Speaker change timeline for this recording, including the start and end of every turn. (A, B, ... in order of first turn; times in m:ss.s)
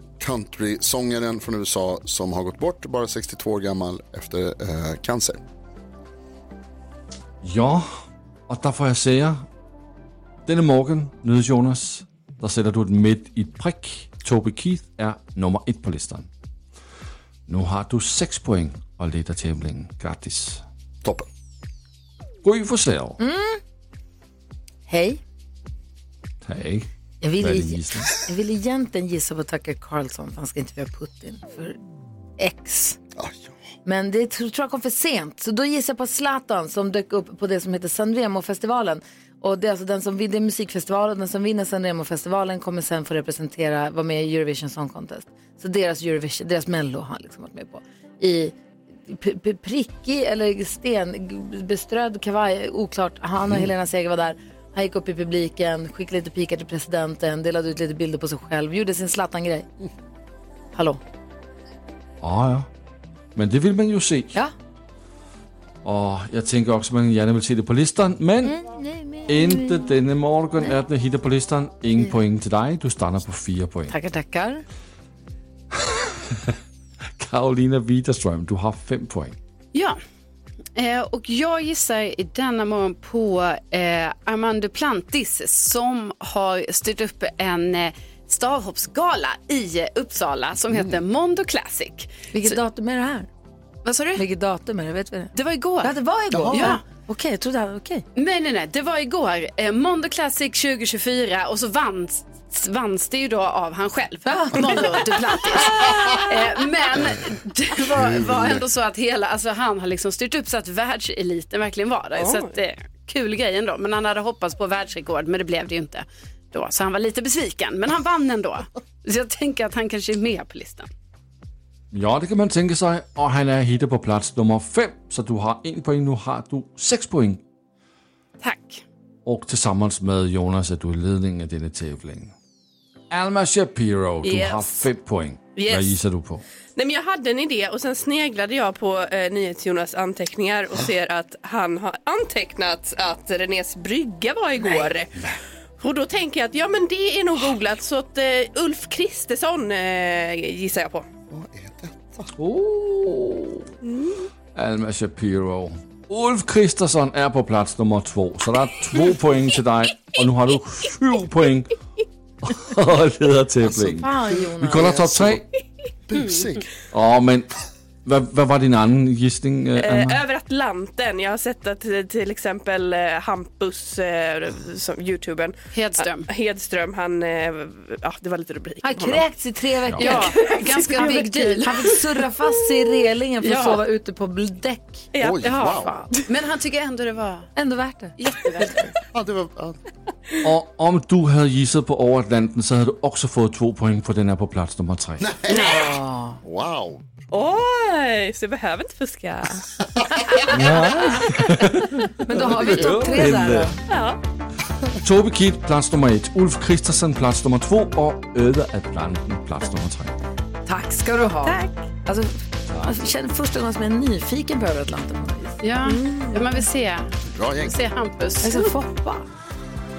0:00.2-0:05.4 A
0:07.4-0:07.9 B
0:08.5-0:09.5 B
0:10.4-0:16.3 B
0:17.5-0:20.6 B
0:22.4-0:23.2 B
0:23.2-0:23.6 C
0:24.9-0:25.2 C
0:26.4-0:26.9 B
0:27.2-0:31.8 C
0:27.4-0:28.1 B
0:32.4-0:33.0 C
0:33.1-0:33.5 A
0:33.8-0:59.7 C
0:53.4-0:53.7 A
1:00.7-1:01.0 C
1:02.2-1:02.7 B
1:03.3-1:04.4 B
1:05.8-1:08.6 B
1:08.4-1:10.0 C
1:09.3-1:13.9 B
1:13.9-1:14.6 C
1:15.8-1:16.5 B
1:17.2-1:19.4 B
1:19.7-1:20.0 D
1:20.8-1:32.6 D
1:30.7-1:31.0 A
1:32.3-1:33.3 C
1:33.8-1:34.2 D
1:34.2-1:38.0 C
1:35.3-1:35.9 D
1:36.3-1:36.8 A
1:36.5-1:36.8 D
1:38.1-2:00.9 D
1:44.2-1:45.0 C
1:47.9-1:48.6 A
1:52.2-1:52.6 E
2:01.9-2:07.4 B
2:08.4-2:08.8 D
2:09.2-2:12.3 B
2:13.1-2:16.4 B
2:16.8-2:25.2 E
2:25.8-2:31.0 E
2:31.3-2:32.3 A
2:32.4-2:33.7 B
2:33.8-2:34.2 E
2:34.5-2:41.7 B
2:42.4-2:45.4 B
2:43.6-2:44.0 A
2:44.0-2:45.2 C
2:44.9-2:45.4 A
2:46.1-2:46.7 A
2:46.2-2:46.5 D
2:46.9-2:47.5 B
2:48.0-2:50.2 B
2:49.8-2:59.3 E
2:55.7-2:56.3 D
2:58.8-3:05.1 C
3:00.0-3:02.0 D
3:00.0-3:01.9 E
3:03.4-3:03.8 D
3:05.1-3:06.3 E
3:05.2-3:06.0 A
3:05.4-3:07.5 D
3:07.6-3:08.2 C
3:08.2-3:08.9 D
3:09.1-3:09.8 A
3:10.4-3:15.3 B
3:15.2-3:15.8 A
3:15.5-3:16.4 C
3:16.4-3:17.0 A
3:17.3-3:19.7 E
3:20.5-3:23.7 B
3:22.2-3:23.8 C
3:23.9-3:24.2 E
3:25.0-3:30.1 B
3:30.6-3:35.6 C
3:31.4-3:31.8 E
3:32.7-3:33.0 B
3:35.6-3:38.7 D
3:35.8-3:36.6 E
3:37.3-3:37.8 A
3:38.4-3:39.2 C